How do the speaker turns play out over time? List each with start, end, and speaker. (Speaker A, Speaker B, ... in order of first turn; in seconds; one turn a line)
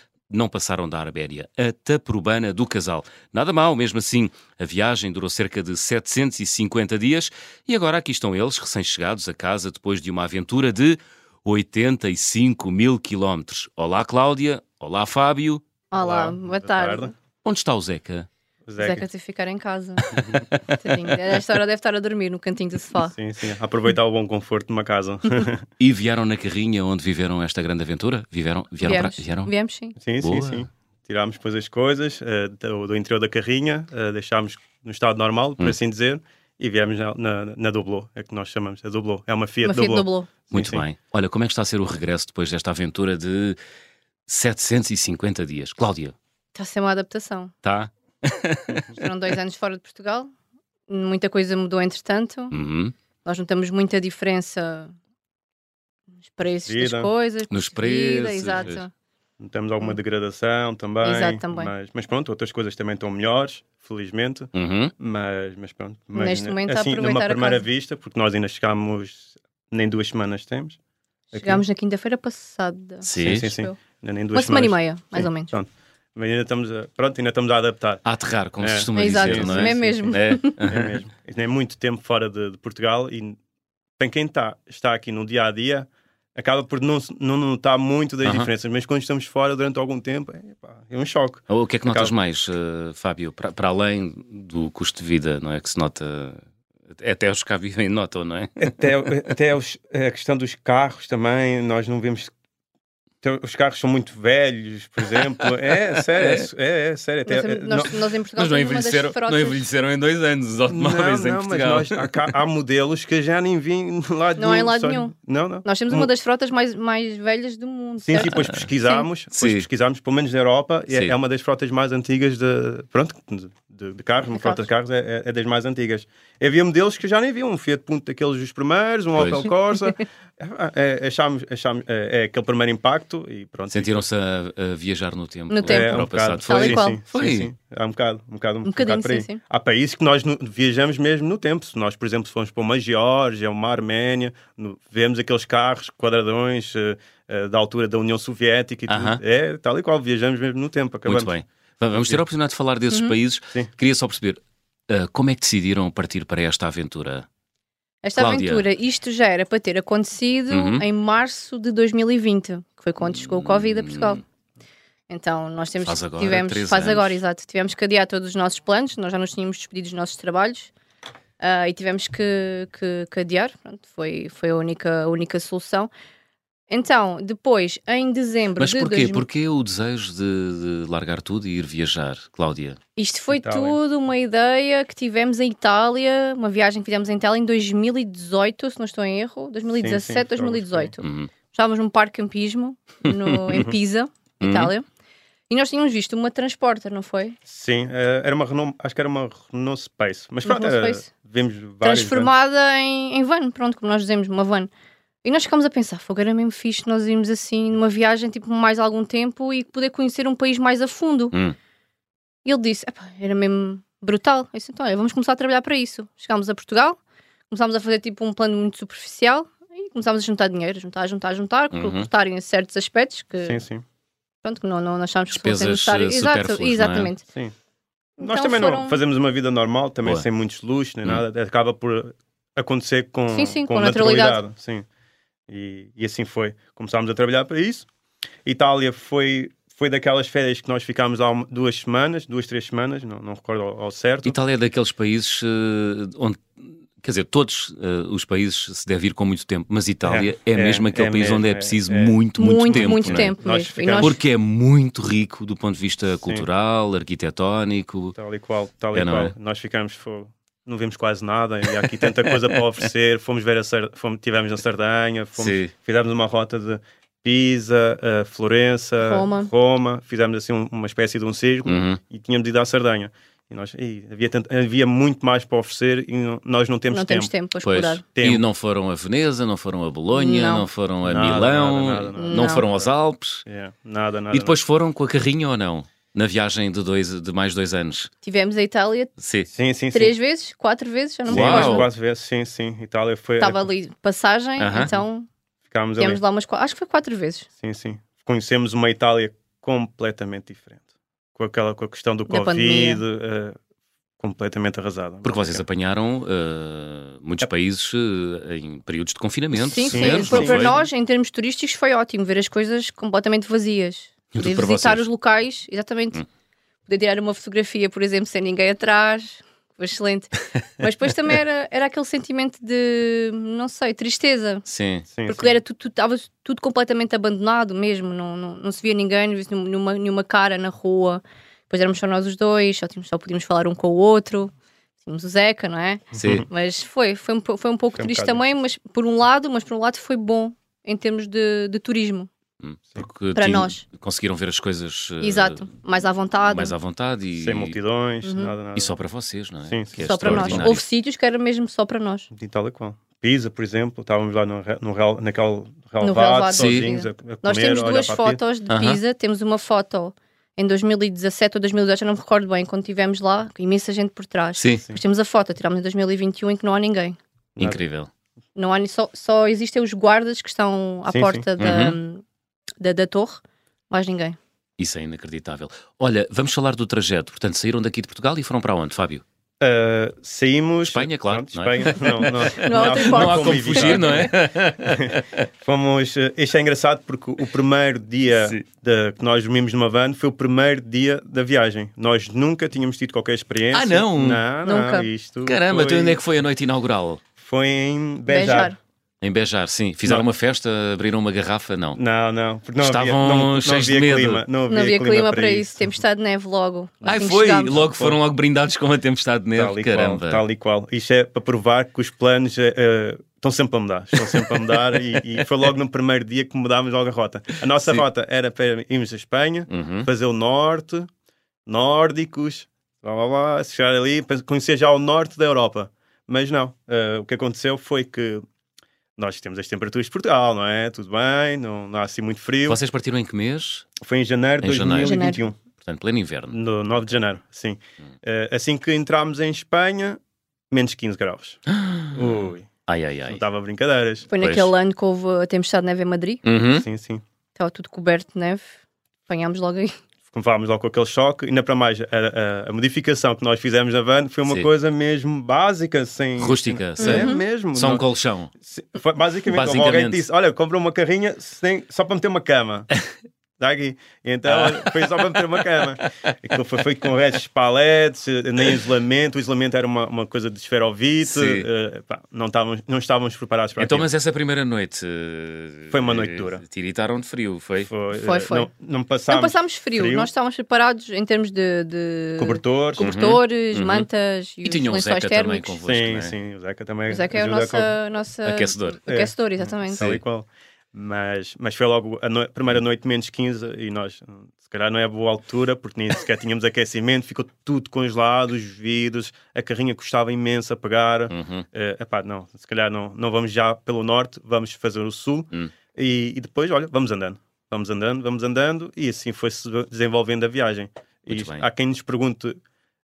Speaker A: 0.3-15.7
Speaker B: 15.9-17.1
Speaker C: 16.0-17.1
Speaker A: 17.4-18.3
Speaker C: 18.7-19.1
Speaker B: 18.8-23.1
Speaker C: 20.1-20.6
Speaker C: 23.0-25.7
Speaker A: 25.8-29.5
Speaker B: 28.8-30.0
Speaker C: 30.0-40.9
Speaker A: 30.2-30.6
Speaker B: 39.6-40.3
Speaker A: 40.5-43.6
Speaker A: 44.3-46.1
Speaker B: 46.5-47.5
Speaker A: 47.6-48.9
Speaker B: 48.9-50.3
Speaker B: 50.9-52.5
Speaker A: 52.5-52.9
Speaker B: 53.2-54.9
Speaker B: 56.3-58.9
Speaker C: 56.7-57.1
Speaker A: 57.5-58.8
Speaker C: 59.4-70.8
Speaker B: 61.0-61.7
Speaker A: 64.5-64.9
Speaker B: 66.2-67.7
Speaker C: 71.3-71.6
Speaker B: 71.3-73.8
Speaker A: 73.0-73.5
Speaker C: 73.2-78.0
Speaker B: 74.3-75.5
Speaker A: 78.0-80.9
Speaker C: 78.6-83.4
Speaker B: 79.0-80.6
Speaker C: 84.0-92.1
Speaker A: 91.5-98.7
Speaker C: 98.6-102.3
Speaker C: 103.2-107.9
Speaker A: 106.2-106.5
Speaker B: 107.3-109.6
Speaker A: 108.4-112.3
Speaker C: 110.7-116.1
Speaker B: 114.4-119.0
Speaker C: 118.0-134.0
Speaker A: 118.2-118.7
Speaker A: 119.3-119.7
Speaker A: 120.9-121.1
Speaker B: 124.3-124.6
Speaker A: 129.2-129.5
Speaker A: 133.7-137.5
Speaker B: 135.5-137.0
Speaker C: 135.7-151.3
Speaker B: 138.6-139.4
Speaker A: 148.9-149.2
Speaker A: 151.1-157.3
Speaker C: 151.9-152.2
Speaker B: 158.0-164.2
Speaker A: 158.2-158.7
Speaker A: 160.5-160.8
Speaker A: 163.0-164.2
Speaker B: 165.1-170.7
Speaker A: 165.8-167.2
Speaker B: 171.4-175.9
Speaker B: 176.7-179.2
Speaker A: 178.6-182.8
Speaker B: 183.0-194.8
Speaker C: 183.3-183.8
Speaker C: 189.8-190.9
Speaker A: 191.0-191.3
Speaker A: 193.1-193.7
Speaker A: 194.4-194.7
Speaker B: 195.5-197.4
Speaker C: 197.5-202.3
Speaker B: 200.4-201.1
Speaker B: 201.8-204.7
Speaker B: 205.2-211.3
Speaker B: 212.4-217.0
Speaker B: 217.5-223.6
Speaker A: 221.7-222.1
Speaker C: 223.4-223.8
Speaker B: 224.4-227.2
Speaker A: 225.4-227.1
Speaker B: 228.2-229.0
Speaker C: 228.2-234.9
Speaker B: 233.3-234.4
Speaker C: 235.5-237.9
Speaker C: 238.4-244.4
Speaker A: 244.2-253.3
Speaker C: 250.1-252.2
Speaker B: 252.4-254.2
Speaker C: 252.7-254.2
Speaker A: 253.9-258.2
Speaker C: 258.1-277.3
Speaker A: 258.9-259.3
Speaker A: 265.4-265.7
Speaker B: 269.0-269.5
Speaker A: 271.7-272.0
Speaker B: 276.9-278.0
Speaker A: 277.6-283.4
Speaker C: 278.1-278.4
Speaker B: 280.1-280.7
Speaker C: 281.1-282.9
Speaker B: 282.2-282.7
Speaker C: 283.4-284.6
Speaker A: 284.3-288.1
Speaker B: 288.2-289.1
Speaker A: 289.2-289.5
Speaker C: 289.5-290.2
Speaker B: 289.9-291.9
Speaker C: 291.3-293.7
Speaker A: 291.3-291.9
Speaker B: 293.4-295.3
Speaker A: 294.6-294.9
Speaker C: 295.7-296.2
Speaker B: 296.0-297.5
Speaker C: 297.6-300.8
Speaker C: 301.4-303.6
Speaker B: 302.3-303.0
Speaker C: 304.2-305.6
Speaker A: 305.2-310.8
Speaker B: 309.6-316.2
Speaker C: 309.8-310.9
Speaker A: 314.3-315.1
Speaker B: 316.9-324.6
Speaker A: 324.7-325.1
Speaker C: 325.1-325.6
Speaker B: 325.3-342.3
Speaker C: 336.1-336.5
Speaker A: 336.1-336.4
Speaker C: 338.0-338.4
Speaker A: 342.6-345.7
Speaker B: 343.4-343.8
Speaker B: 345.2-346.7
Speaker A: 346.5-347.8
Speaker C: 347.4-349.0
Speaker B: 348.2-348.5
Speaker A: 348.8-350.8
Speaker C: 349.7-350.7
Speaker B: 350.0-352.3
Speaker C: 352.3-358.4
Speaker B: 356.0-367.2
Speaker A: 356.5-356.9
Speaker A: 358.7-359.0
Speaker A: 364.6-364.8
Speaker A: 367.6-368.1
Speaker B: 368.6-372.2
Speaker C: 371.1-371.5
Speaker A: 371.6-372.0
Speaker B: 372.8-374.4
Speaker A: 374.8-379.2
Speaker C: 379.6-384.3
Speaker A: 380.9-385.3
Speaker B: 382.5-384.3
Speaker C: 384.9-396.2
Speaker A: 388.3-388.6
Speaker A: 393.7-394.4
Speaker B: 394.6-395.1
Speaker A: 395.4-397.2
Speaker C: 397.4-398.8
Speaker B: 398.3-398.8
Speaker A: 399.2-402.0
Speaker C: 401.9-405.8
Speaker A: 402.8-404.4
Speaker B: 404.7-407.8
Speaker A: 407.0-410.4
Speaker C: 407.9-408.2
Speaker C: 409.6-421.1
Speaker A: 419.7-420.1
Speaker C: 421.7-428.5
Speaker C: 429.2-432.8
Speaker A: 432.7-433.9
Speaker C: 434.0-435.6
Speaker A: 434.6-435.2
Speaker B: 435.0-435.4
Speaker A: 435.8-436.6
Speaker C: 436.5-441.6
Speaker A: 441.7-443.4
Speaker C: 442.1-442.7
Speaker C: 443.3-444.3
Speaker B: 444.3-446.4
Speaker A: 444.4-444.7
Speaker A: 446.4-446.9
Speaker C: 446.7-447.2
Speaker B: 447.6-448.8
Speaker B: 449.3-450.0
Speaker C: 450.3-458.1
Speaker A: 456.4-458.5
Speaker B: 457.0-457.4
Speaker C: 458.6-462.9
Speaker A: 459.5-460.2
Speaker C: 463.6-474.1
Speaker A: 464.5-465.5
Speaker A: 471.2-471.7
Speaker A: 473.8-477.9
Speaker C: 475.9-476.6
Speaker C: 477.8-480.3
Speaker B: 478.1-478.7
Speaker B: 479.3-485.7
Speaker C: 482.4-483.1
Speaker A: 483.0-484.1
Speaker A: 484.6-486.4
Speaker C: 485.8-487.9
Speaker B: 487.1-490.1
Speaker A: 488.4-489.0
Speaker C: 489.1-512.6
Speaker A: 501.3-501.6
Speaker A: 511.3-511.7